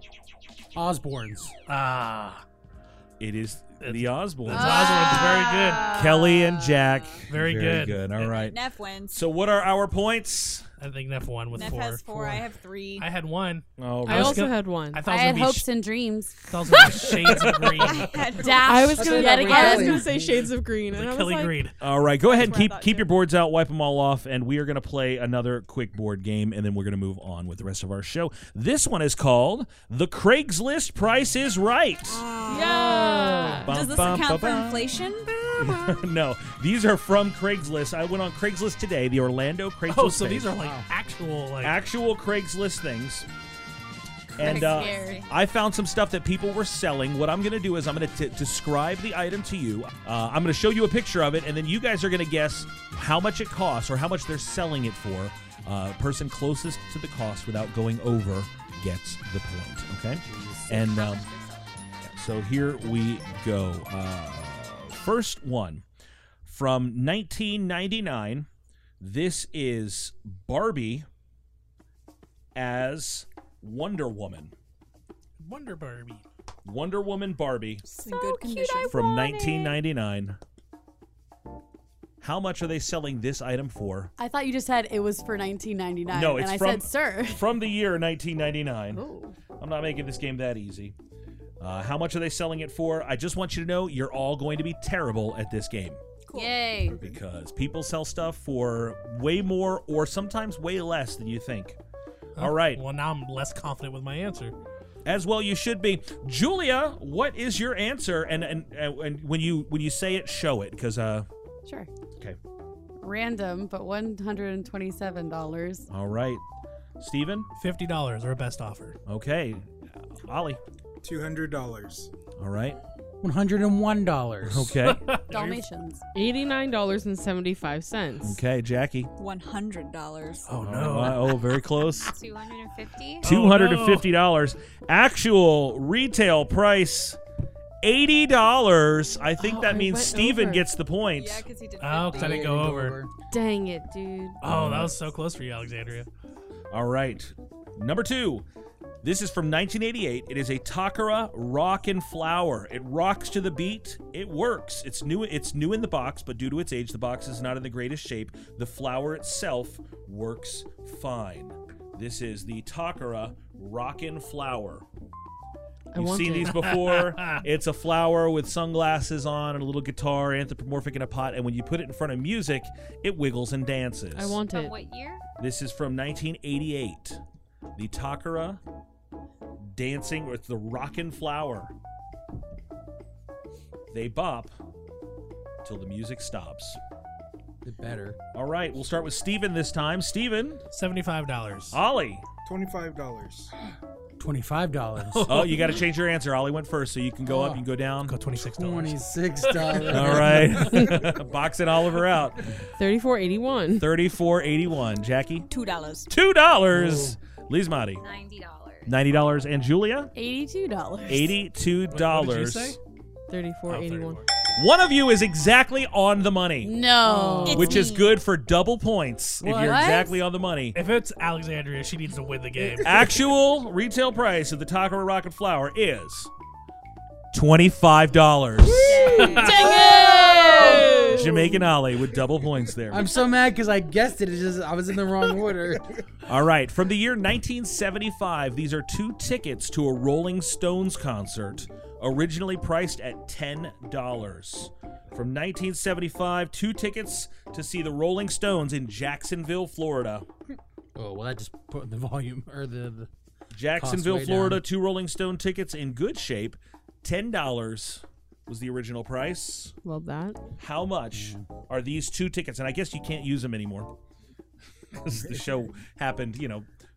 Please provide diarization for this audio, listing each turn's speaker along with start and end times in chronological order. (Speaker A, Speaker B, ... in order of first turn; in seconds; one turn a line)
Speaker A: 0.7-1.5
Speaker B: 1.7-2.4
Speaker C: 3.2-4.8
Speaker B: 3.8-5.9
Speaker D: 4.5-6.8
Speaker E: 4.5-6.3
Speaker C: 5.9-8.6
Speaker B: 7.3-8.3
Speaker E: 8.2-9.2
Speaker C: 9.1-10.7
Speaker B: 10.8-12.4
Speaker E: 11.5-13.1
Speaker B: 13.0-15.7
Speaker C: 13.8-14.5
Speaker F: 14.1-15.1
Speaker D: 15.0-16.4
Speaker B: 16.5-18.2
Speaker C: 17.4-17.6
Speaker E: 17.7-19.2
Speaker D: 18.3-20.1
Speaker F: 18.6-21.6
Speaker A: 18.9-20.5
Speaker B: 20.9-21.8
Speaker C: 21.8-32.2
Speaker E: 22.1-23.1
Speaker E: 32.1-35.9
Speaker F: 32.5-33.7
Speaker C: 33.6-34.9
Speaker C: 35.6-40.5
Speaker B: 39.9-41.8
Speaker A: 40.5-40.9
Speaker C: 41.6-43.3
Speaker C: 44.4-61.3
Speaker D: 44.4-45.2
Speaker G: 44.4-45.3
Speaker A: 60.1-60.9
Speaker E: 60.9-61.7
Speaker G: 61.0-61.4
Speaker C: 62.0-65.8
Speaker C: 66.4-68.5
Speaker C: 69.0-71.1
Speaker C: 72.5-74.5
Speaker B: 75.4-76.2
Speaker C: 76.6-77.8
Speaker E: 77.8-79.7
Speaker D: 78.6-78.9
Speaker C: 78.9-80.4
Speaker C: 82.2-84.1
Speaker D: 84.2-87.5
Speaker C: 86.1-89.0
Speaker D: 89.0-89.3
Speaker C: 89.6-90.9
Speaker C: 91.6-96.0
Speaker E: 96.3-96.8
Speaker D: 96.3-97.0
Speaker C: 96.9-101.8
Speaker B: 102.4-104.5
Speaker C: 102.4-102.8
Speaker C: 105.0-111.3
Speaker D: 113.0-115.9
Speaker C: 115.9-116.4
Speaker C: 117.0-117.5
Speaker B: 117.6-119.0
Speaker C: 119.0-120.6
Speaker H: 121.0-122.1
Speaker C: 122.4-122.8
Speaker A: 123.2-124.8
Speaker C: 124.5-125.0
Speaker B: 124.8-125.6
Speaker D: 125.3-126.0
Speaker F: 126.1-128.4
Speaker C: 128.2-129.1
Speaker E: 129.2-130.5
Speaker B: 130.5-131.4
Speaker C: 130.6-132.1
Speaker G: 132.0-133.2
Speaker B: 133.2-134.1
Speaker C: 133.2-137.2
Speaker C: 137.8-141.5
Speaker F: 139.4-140.7
Speaker E: 141.1-142.6
Speaker B: 141.8-143.0
Speaker A: 142.1-143.1
Speaker F: 143.3-144.4
Speaker B: 144.4-146.1
Speaker C: 144.4-145.0
Speaker C: 146.7-148.4
Speaker C: 149.0-164.8
Speaker F: 165.9-166.6
Speaker C: 165.9-174.4
Speaker B: 166.4-167.4
Speaker F: 174.1-174.7
Speaker G: 174.5-175.2
Speaker C: 175.4-177.2
Speaker C: 177.7-178.6
Speaker C: 179.6-181.7
Speaker C: 183.9-184.5
Speaker C: 185.6-186.8
Speaker A: 187.6-188.2
Speaker C: 188.3-190.6
Speaker B: 190.7-191.8
Speaker C: 191.7-192.2
Speaker H: 192.4-193.5
Speaker A: 194.2-195.3
Speaker B: 195.1-195.8
Speaker C: 195.2-198.1
Speaker A: 197.2-197.6
Speaker B: 198.1-200.3
Speaker A: 198.3-200.8
Speaker C: 199.9-202.5
Speaker F: 200.7-201.0
Speaker F: 202.8-203.9
Speaker C: 203.8-205.5
Speaker E: 205.5-206.1
Speaker C: 206.1-208.0
Speaker A: 206.7-207.2
Speaker G: 208.0-208.9
Speaker C: 208.8-210.1
Speaker D: 210.1-211.4
Speaker C: 211.1-212.8
Speaker B: 211.9-212.8
Speaker F: 213.3-214.2
Speaker B: 213.7-214.2
Speaker C: 214.6-216.8
Speaker D: 216.6-217.9
Speaker E: 217.4-218.1
Speaker C: 217.5-220.8
Speaker A: 219.4-219.8
Speaker D: 219.4-220.2
Speaker B: 220.7-223.1
Speaker C: 222.8-226.3
Speaker C: 227.3-229.6
Speaker E: 228.8-231.2
Speaker F: 229.3-231.6
Speaker D: 229.6-231.0
Speaker C: 231.1-233.1
Speaker A: 232.9-235.9
Speaker C: 236.2-250.3
Speaker A: 250.9-253.1
Speaker C: 253.5-259.7
Speaker A: 253.7-254.6
Speaker F: 259.8-260.4
Speaker C: 260.6-263.9
Speaker A: 261.1-261.5
Speaker C: 264.9-266.6